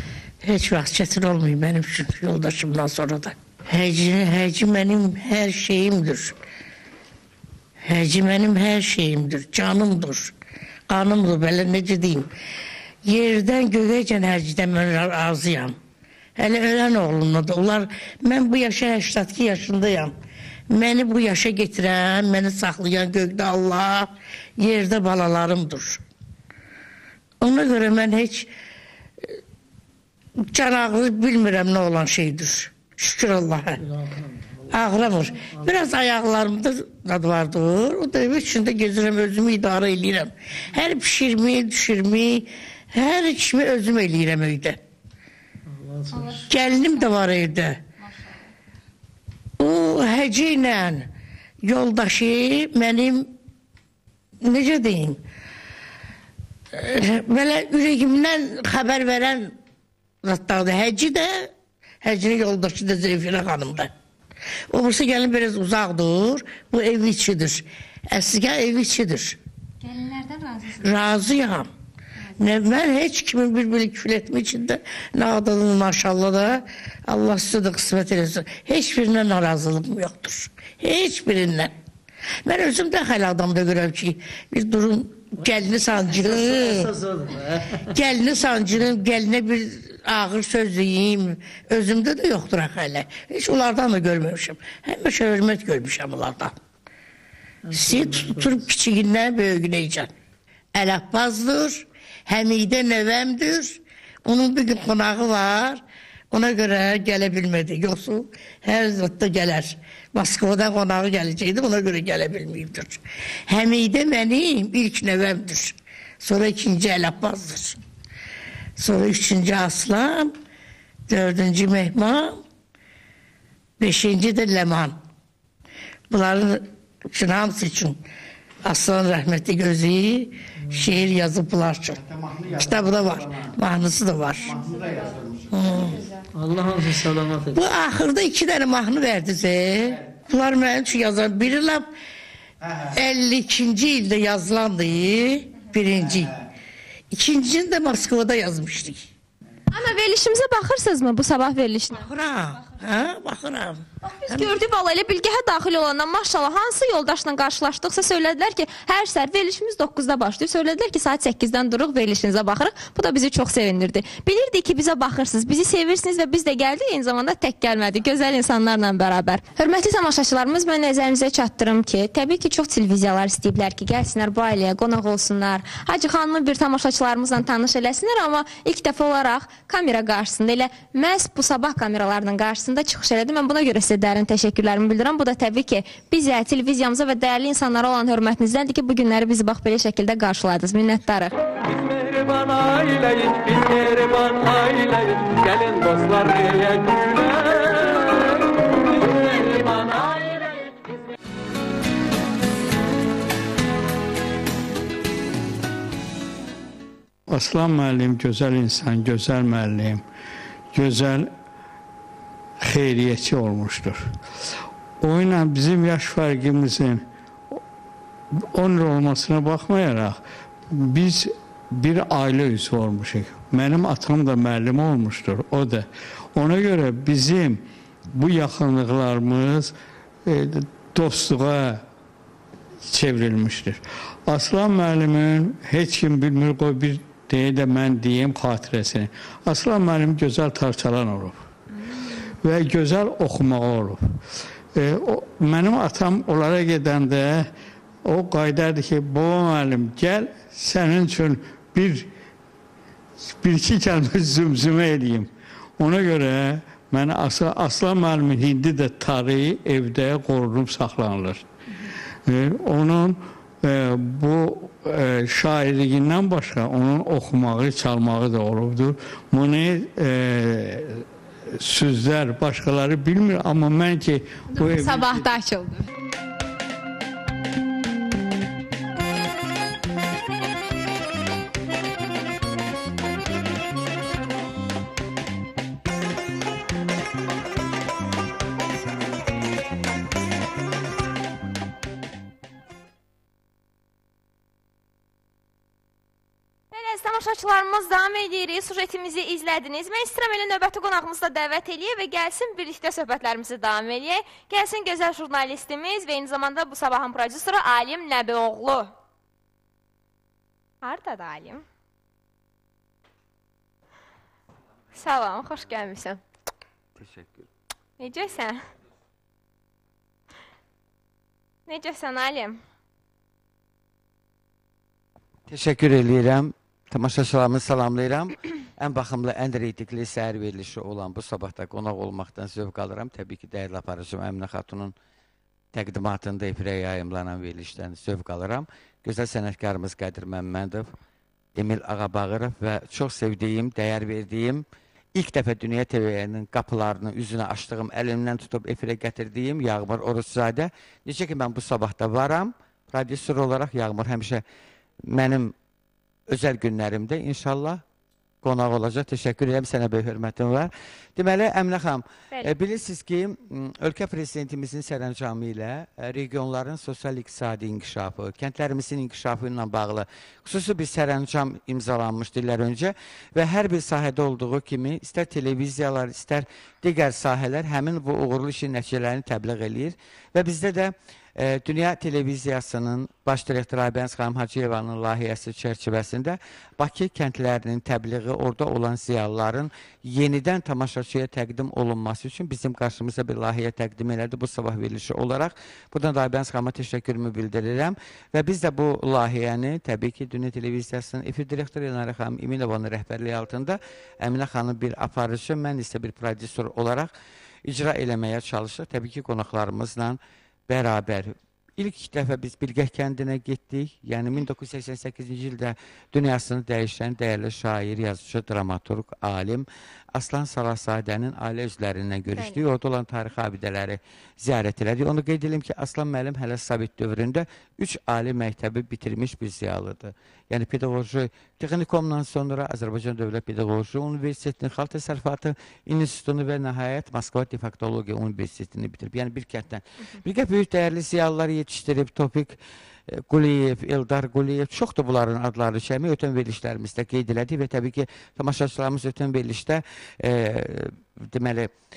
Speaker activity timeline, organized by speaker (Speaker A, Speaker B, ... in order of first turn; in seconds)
Speaker A: 0.4-6.3, 7.9-10.3, 10.9-12.3, 13.1-15.8, 16.4-20.1, 20.7-26.0, 27.4-28.5, 30.5-33.8, 34.7-44.8, 46.5-47.8, 49.6-51.1, 51.6-53.3, 54.4-55.2, 56.7-59.6, 60.2-63.9, 64.7-69.4, 70.8-71.7, 72.4-81.7, 82.5-86.9, 87.9-96.6, 97.7-100.1, 100.7-117.8, 118.8-120.3, 121.1-122.4, 123.8-125.0, 126.1-128.0, 128.6-134.6, 135.5-136.0, 137.5-141.9, 142.9-146.4, 147.1-149.1, 151.9-154.5
Speaker B: 33.8-35.8, 45.7-46.4, 85.4-87.8, 97.7-98.6, 136.3-137.7
Speaker C: 46.1-46.8, 48.0-48.4, 69.8-70.8, 149.7-152.0, 154.0-191.3, 274.6-275.9, 296.7-308.9, 310.8-311.6, 314.9-316.2, 318.0-318.6, 321.7-322.6, 422.3-422.6
Speaker D: 192.2-194.7, 195.6-197.0
Speaker E: 207.3-210.0, 210.7-211.3, 212.6-214.1, 215.0-217.1, 218.4-220.2, 220.8-229.7, 230.3-231.8, 232.9-241.4, 242.4-244.0, 244.8-247.5, 248.1-252.1, 253.4-261.4, 262.3-271.0, 271.6-275.3
Speaker F: 317.0-317.4, 325.5-334.9, 335.7-340.9, 341.6-354.4, 355.1-355.5, 356.3-357.8, 358.4-407.1, 407.6-410.2, 410.7-442.6, 443.2-451.7